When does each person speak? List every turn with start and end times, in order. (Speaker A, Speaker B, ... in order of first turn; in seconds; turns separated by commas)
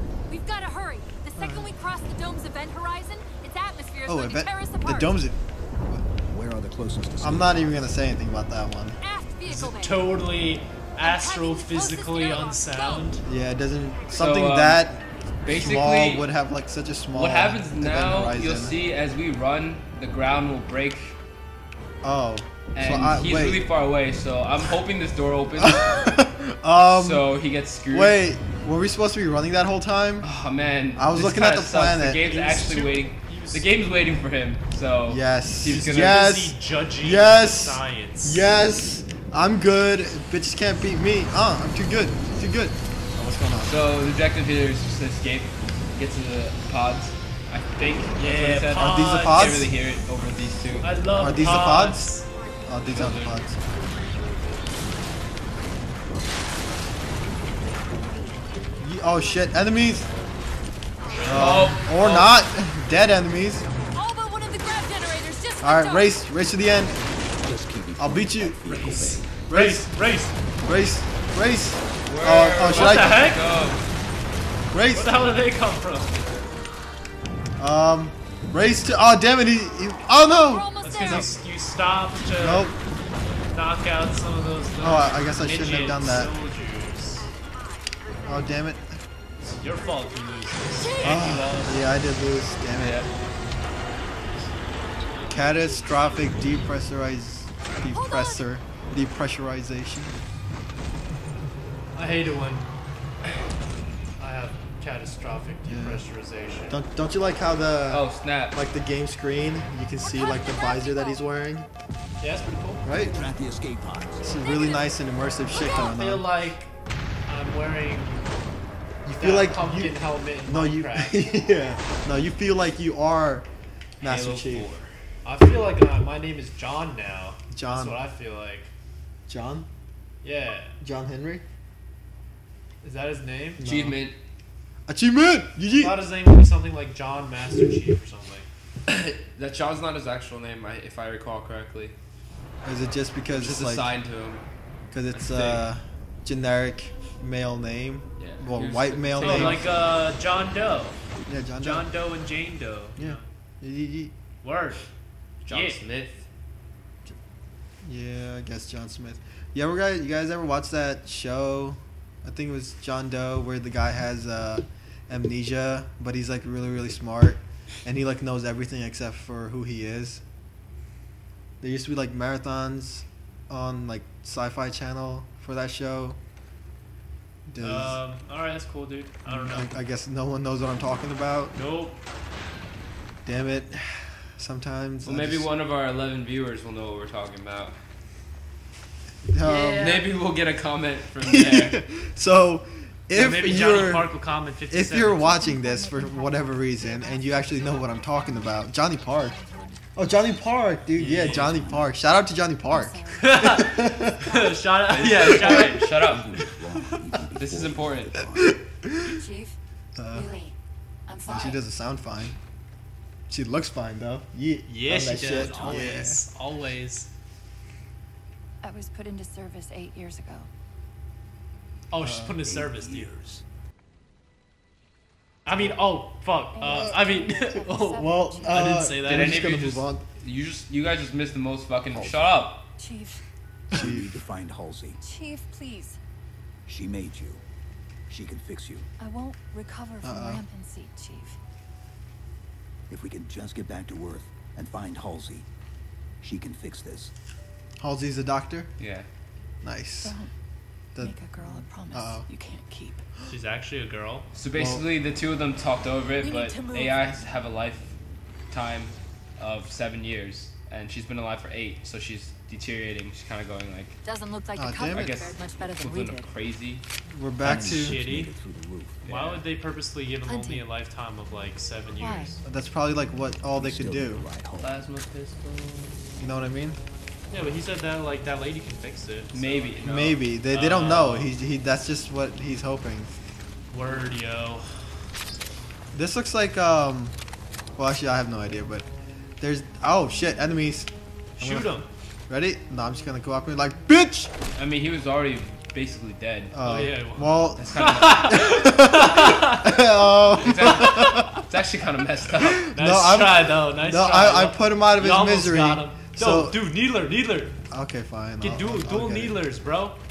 Speaker A: 0.3-5.2, Speaker B: 1.4-1.7, Speaker B: 4.1-6.0, Speaker C: 6.3-7.9, Speaker B: 7.2-9.0, Speaker A: 9.0-10.2, Speaker D: 9.5-13.2, Speaker A: 11.0-13.1, Speaker B: 13.3-18.8, Speaker E: 14.1-14.9, Speaker E: 15.4-16.3, Speaker E: 17.1-21.2, Speaker B: 22.0-23.6, Speaker E: 22.7-26.2, Speaker B: 25.6-27.3, Speaker E: 26.8-28.2, Speaker B: 27.9-30.3, Speaker E: 30.2-36.2, Speaker B: 31.0-32.2, Speaker D: 32.2-33.7, Speaker B: 35.1-43.8, Speaker D: 35.7-38.5, Speaker E: 43.6-51.0, Speaker D: 48.2-49.5, Speaker B: 48.8-49.7, Speaker D: 50.8-52.3, Speaker B: 51.2-52.1, Speaker B: 52.7-53.6, Speaker E: 52.9-53.4, Speaker B: 58.8-60.1, Speaker D: 61.2-61.6, Speaker E: 61.2-62.4, Speaker B: 61.3-63.6, Speaker A: 63.9-66.1, Speaker B: 65.6-67.0, Speaker C: 67.4-69.4, Speaker B: 68.0-68.7, Speaker D: 68.7-70.4, Speaker B: 69.5-70.0, Speaker B: 70.6-73.3, Speaker E: 72.1-73.8, Speaker D: 72.7-73.7, Speaker B: 74.7-75.2, Speaker D: 74.9-76.2, Speaker B: 77.6-81.3, Speaker A: 80.3-81.3, Speaker D: 80.8-82.7, Speaker B: 82.4-82.8, Speaker D: 83.5-87.3, Speaker B: 84.8-86.3, Speaker B: 88.3-89.0, Speaker D: 89.4-91.9, Speaker A: 90.7-91.4, Speaker B: 91.0-93.1, Speaker E: 92.8-93.0, Speaker B: 95.3-100.2, Speaker A: 97.9-98.5, Speaker D: 101.9-102.7, Speaker D: 104.2-106.8, Speaker B: 105.7-106.0, Speaker B: 106.7-111.7, Speaker E: 107.9-108.6, Speaker A: 110.0-111.3, Speaker D: 112.2-112.9, Speaker B: 112.8-113.2, Speaker C: 113.0-114.3, Speaker B: 114.2-116.2, Speaker A: 114.2-115.8, Speaker D: 115.6-116.7, Speaker D: 117.3-118.3, Speaker B: 119.0-123.5, Speaker D: 119.2-121.3, Speaker B: 124.0-124.7, Speaker E: 124.0-124.9, Speaker D: 125.2-128.7, Speaker B: 127.5-128.0, Speaker B: 129.3-129.7, Speaker D: 130.2-130.8, Speaker B: 130.8-131.4, Speaker D: 132.8-133.6, Speaker B: 133.6-134.0, Speaker E: 133.6-134.2, Speaker B: 134.9-136.1, Speaker D: 135.7-138.5, Speaker E: 138.9-141.9, Speaker B: 142.6-143.9, Speaker E: 143.3-144.4, Speaker B: 144.9-149.6, Speaker E: 145.1-145.7, Speaker E: 148.2-149.7, Speaker D: 149.2-151.0, Speaker B: 151.3-151.9, Speaker D: 151.6-153.2, Speaker B: 153.0-154.1, Speaker D: 154.4-154.8, Speaker E: 155.4-156.3, Speaker D: 155.5-155.8, Speaker B: 157.8-170.2, Speaker B: 171.6-176.2, Speaker B: 177.5-178.0, Speaker D: 177.6-179.8, Speaker B: 179.3-181.6, Speaker D: 181.6-182.0, Speaker B: 183.2-185.5, Speaker E: 185.0-187.8, Speaker B: 189.3-190.0, Speaker D: 189.4-190.1, Speaker E: 189.8-191.8, Speaker B: 191.2-194.1, Speaker D: 193.1-195.4, Speaker B: 194.7-199.4, Speaker A: 195.3-198.6, Speaker A: 199.3-199.7, Speaker B: 199.9-204.2, Speaker D: 201.0-201.5, Speaker C: 201.0-201.9, Speaker A: 202.7-205.0, Speaker D: 203.2-205.8, Speaker E: 204.9-206.3, Speaker C: 205.4-208.6, Speaker E: 207.3-208.2, Speaker B: 208.3-209.2, Speaker A: 209.0-209.6, Speaker B: 210.0-210.3, Speaker A: 210.1-210.6, Speaker A: 211.1-211.6, Speaker B: 211.3-212.4, Speaker B: 213.3-216.2, Speaker D: 214.7-217.1, Speaker C: 215.2-216.0, Speaker A: 218.6-220.5, Speaker D: 221.9-223.1, Speaker B: 222.0-222.4, Speaker C: 222.4-223.4, Speaker D: 225.4-229.4, Speaker A: 226.6-228.8, Speaker B: 228.0-230.0, Speaker E: 229.0-232.7, Speaker C: 231.9-232.5, Speaker A: 232.8-233.2, Speaker C: 233.7-235.0, Speaker B: 233.7-234.1, Speaker A: 235.0-236.0, Speaker C: 236.7-237.4, Speaker C: 238.1-238.9, Speaker A: 239.0-241.4, Speaker B: 240.0-240.4, Speaker C: 242.9-245.5, Speaker C: 246.2-247.1, Speaker B: 247.8-248.7, Speaker E: 248.8-249.1, Speaker B: 249.6-250.2, Speaker A: 250.0-250.3, Speaker A: 251.0-253.1, Speaker B: 251.9-252.3, Speaker D: 253.3-254.3, Speaker E: 254.3-258.0, Speaker B: 254.5-254.9, Speaker A: 256.2-257.1, Speaker E: 258.5-264.0, Speaker A: 264.0-266.3, Speaker B: 264.6-265.2, Speaker E: 264.9-266.8, Speaker B: 267.1-268.0, Speaker C: 267.4-269.1, Speaker D: 267.7-268.3, Speaker E: 269.0-269.4, Speaker D: 269.1-272.4, Speaker A: 270.2-270.7, Speaker A: 272.0-272.4, Speaker B: 272.4-274.2, Speaker C: 273.5-274.8, Speaker E: 274.6-276.2, Speaker B: 276.2-276.8, Speaker D: 277.3-279.9, Speaker E: 279.3-280.3, Speaker B: 279.8-283.1, Speaker D: 280.5-281.3, Speaker D: 283.7-284.9, Speaker B: 285.9-287.1, Speaker B: 287.8-288.9, Speaker B: 289.4-294.3, Speaker D: 291.4-291.9, Speaker E: 294.6-296.6, Speaker B: 296.5-301.3, Speaker D: 296.6-299.8, Speaker E: 297.6-298.7, Speaker E: 300.4-302.7, Speaker D: 300.6-301.2, Speaker B: 302.4-306.6, Speaker D: 302.7-307.6, Speaker B: 307.7-309.4, Speaker D: 308.4-310.0